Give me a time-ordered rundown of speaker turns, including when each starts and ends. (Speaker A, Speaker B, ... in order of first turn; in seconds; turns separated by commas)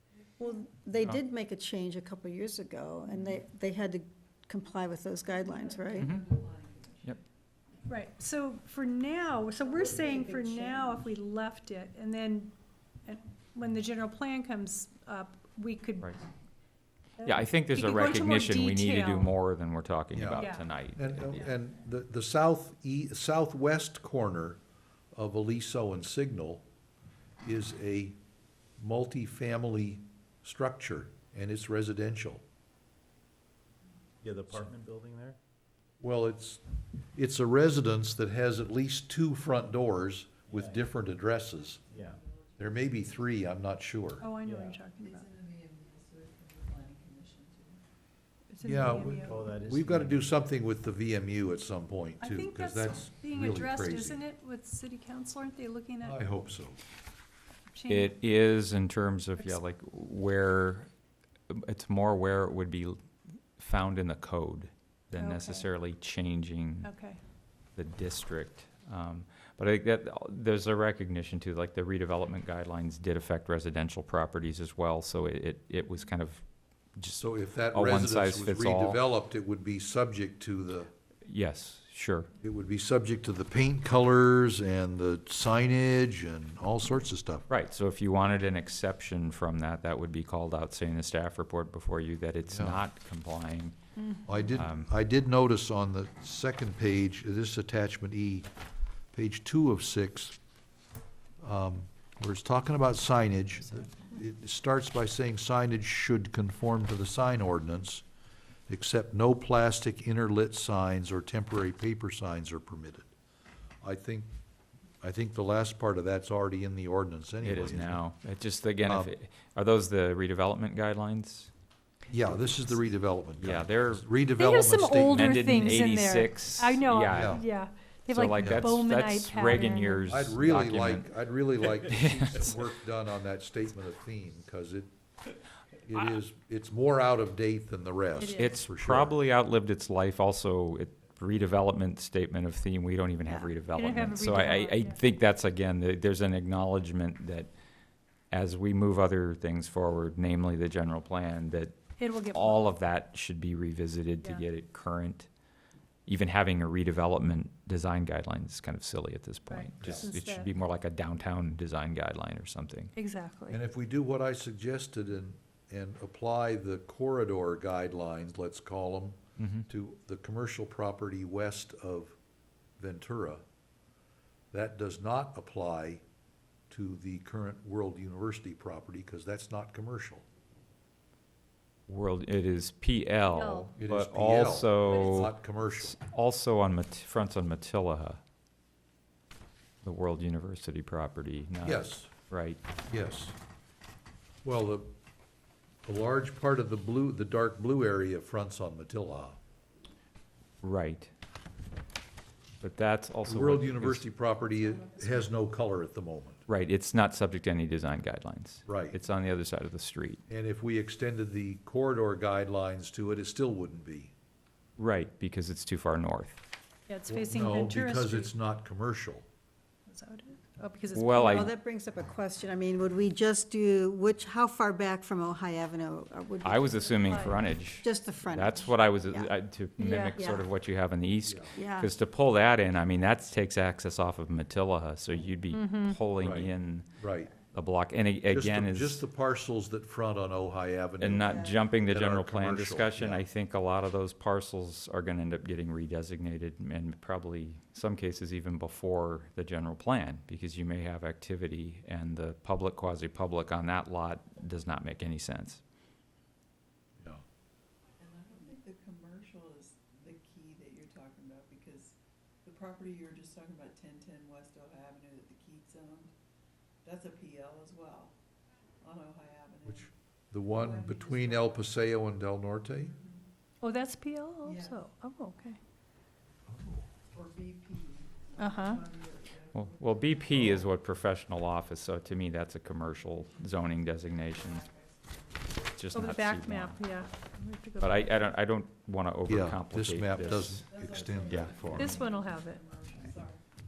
Speaker A: 0.4-6.1, Speaker B: 5.6-7.2, Speaker C: 6.0-6.3, Speaker D: 7.8-12.5, Speaker A: 9.6-11.1, Speaker D: 13.0-16.1, Speaker D: 17.2-19.3, Speaker C: 17.2-21.4, Speaker E: 20.1-24.6, Speaker D: 20.3-20.6, Speaker E: 25.1-26.6, Speaker E: 27.4-28.2, Speaker E: 28.8-32.4, Speaker F: 34.2-35.4, Speaker E: 36.0-36.6, Speaker E: 37.1-41.9, Speaker F: 40.5-40.8, Speaker B: 41.9-42.7, Speaker F: 41.9-42.2, Speaker E: 42.6-44.2, Speaker D: 44.2-45.3, Speaker F: 44.4-44.8, Speaker B: 45.0-47.8, Speaker D: 48.5-49.5, Speaker E: 48.6-54.2, Speaker F: 49.2-50.4, Speaker D: 52.2-56.2, Speaker E: 56.0-56.8, Speaker D: 57.7-58.1, Speaker C: 57.9-60.9, Speaker C: 61.5-63.0, Speaker C: 63.6-66.9, Speaker D: 65.1-65.7, Speaker D: 66.8-67.2, Speaker C: 67.8-76.4, Speaker C: 77.0-79.0, Speaker E: 77.2-80.9, Speaker C: 81.2-82.3, Speaker E: 82.4-87.5, Speaker C: 87.5-93.8, Speaker E: 92.5-92.8, Speaker E: 94.2-98.5, Speaker C: 94.5-94.9, Speaker E: 99.1-100.3, Speaker E: 101.4-108.0, Speaker E: 108.7-113.1, Speaker E: 113.8-114.3, Speaker E: 115.0-118.0, Speaker C: 117.4-121.5, Speaker E: 118.8-119.1, Speaker E: 122.1-125.8, Speaker C: 122.1-124.1, Speaker D: 124.4-130.1, Speaker C: 125.0-127.4, Speaker E: 127.1-127.4, Speaker C: 128.1-131.1, Speaker E: 128.4-128.7, Speaker E: 130.1-134.9, Speaker C: 131.8-132.6, Speaker E: 135.8-139.2, Speaker D: 138.2-138.6, Speaker C: 138.3-147.5, Speaker D: 143.7-145.0, Speaker C: 148.3-151.8, Speaker D: 152.0-152.7, Speaker C: 152.3-155.3, Speaker C: 156.1-162.9, Speaker D: 159.5-160.5, Speaker E: 159.8-160.1, Speaker D: 162.9-163.6, Speaker E: 163.5-172.2, Speaker C: 169.4-169.7, Speaker E: 172.8-173.4, Speaker E: 174.5-176.0, Speaker E: 176.7-180.2, Speaker C: 181.9-188.2, Speaker D: 183.3-183.7, Speaker E: 183.8-185.9, Speaker D: 184.9-185.2, Speaker C: 189.8-192.6, Speaker E: 191.6-192.1, Speaker E: 192.9-193.3, Speaker E: 194.4-194.9, Speaker E: 195.8-199.4, Speaker C: 200.6-201.1, Speaker C: 202.6-204.1, Speaker E: 203.2-206.4, Speaker C: 206.5-210.2, Speaker E: 208.7-209.0, Speaker E: 210.3-214.1, Speaker C: 214.8-216.4, Speaker D: 216.9-218.3, Speaker E: 217.1-219.2, Speaker D: 219.9-221.5, Speaker C: 220.9-221.5, Speaker A: 221.2-229.3, Speaker C: 226.4-236.9, Speaker D: 227.0-227.4, Speaker D: 229.8-230.2, Speaker A: 230.1-230.4, Speaker E: 231.2-231.6, Speaker A: 231.5-231.9, Speaker D: 235.5-236.0, Speaker E: 236.2-237.3, Speaker C: 237.5-239.0, Speaker E: 238.3-243.2, Speaker C: 241.0-255.6, Speaker A: 241.2-241.6, Speaker B: 258.0-266.1, Speaker B: 266.8-268.1, Speaker B: 268.8-269.9, Speaker E: 269.6-272.9, Speaker B: 270.5-271.6, Speaker D: 273.6-275.6, Speaker B: 274.4-274.8, Speaker B: 277.1-280.6, Speaker D: 278.4-278.8, Speaker C: 279.5-284.6, Speaker B: 284.4-285.8, Speaker C: 285.7-286.8, Speaker D: 285.9-288.1, Speaker C: 287.8-290.6, Speaker E: 289.3-292.0, Speaker B: 290.2-293.4, Speaker C: 291.3-291.9, Speaker D: 291.8-292.6